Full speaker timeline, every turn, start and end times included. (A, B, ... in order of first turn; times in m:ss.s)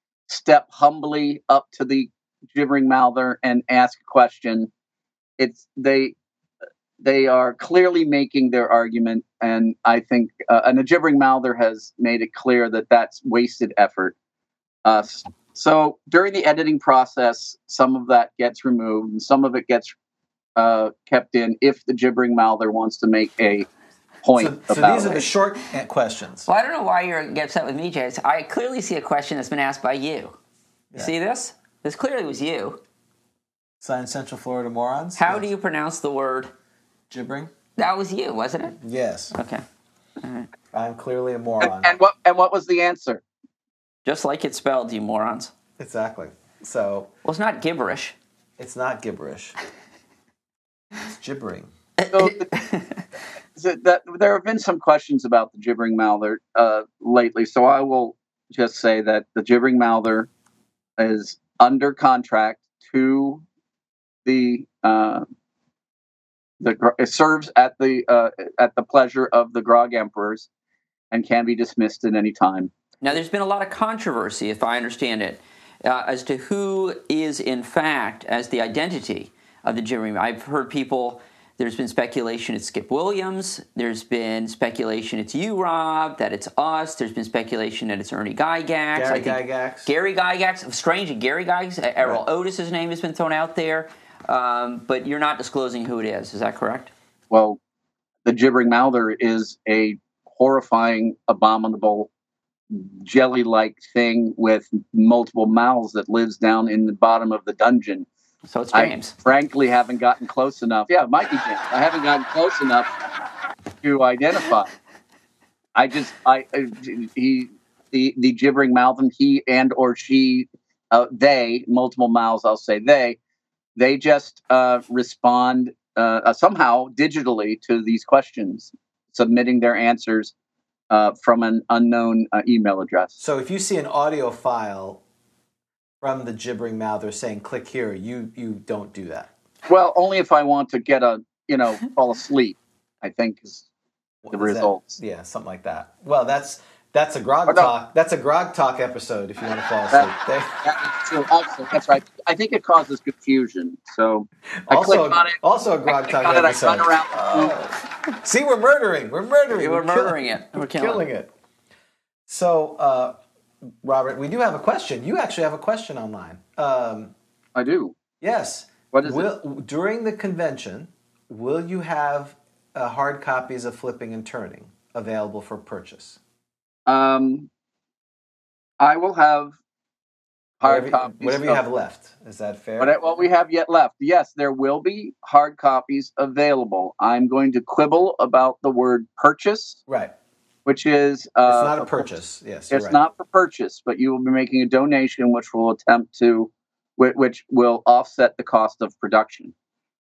0:00.3-0:04.7 A
0:05.4-0:06.2 A
0:07.0-0:14.2 A
0:14.8-0:20.0 A
0:20.6-0:23.7 A
0:24.2-0:25.3 A
0:24.4-0:26.5 B
0:26.5-0:30.4 C
0:31.0-0:32.8 C
0:33.8-0:35.5 B
0:35.2-0:36.5 C
0:37.1-0:37.5 B
0:37.8-0:38.8 C
0:38.8-0:39.3 B
0:39.3-0:39.6 C
0:40.2-0:40.5 C
0:40.7-0:42.0 B
0:41.6-0:43.2 A
0:44.0-0:45.5 C
0:45.8-0:47.1 B
0:47.2-0:48.2 C
0:48.6-0:49.6 B
0:51.0-0:51.7 B
0:52.0-0:53.0 C
0:52.1-0:52.5 A
0:53.6-1:00.3 A
1:01.0-1:03.4 A
1:04.2-1:05.3 A
1:06.6-1:10.5 A
1:11.1-1:12.7 A
1:13.0-1:36.9 C
1:29.0-1:29.9 B
1:37.3-1:37.6 A
1:38.2-1:42.1 A
1:42.7-1:48.1 A
1:48.5-1:49.2 C
1:48.7-1:52.9 A
1:53.8-1:54.7 A
1:55.8-2:03.2 A
2:03.8-2:10.3 A
2:10.9-2:13.2 A
2:13.2-2:15.0 B
2:16.0-2:19.3 B
2:19.7-2:23.7 A
2:24.2-2:30.6 B
2:24.3-2:25.0 A
2:29.9-2:37.6 A
2:34.7-2:41.3 B
2:39.5-2:41.0 C
2:42.3-2:43.2 B
2:43.8-2:47.1 B
2:47.6-2:48.0 A
2:48.2-2:56.2 B
2:48.9-2:49.3 A
2:56.9-2:57.5 A
2:58.8-2:59.6 A
3:00.6-3:01.6 A
3:00.6-3:03.0 B
3:02.8-3:09.8 A
3:10.6-3:12.0 A
3:11.4-3:13.0 B
3:12.7-3:19.5 A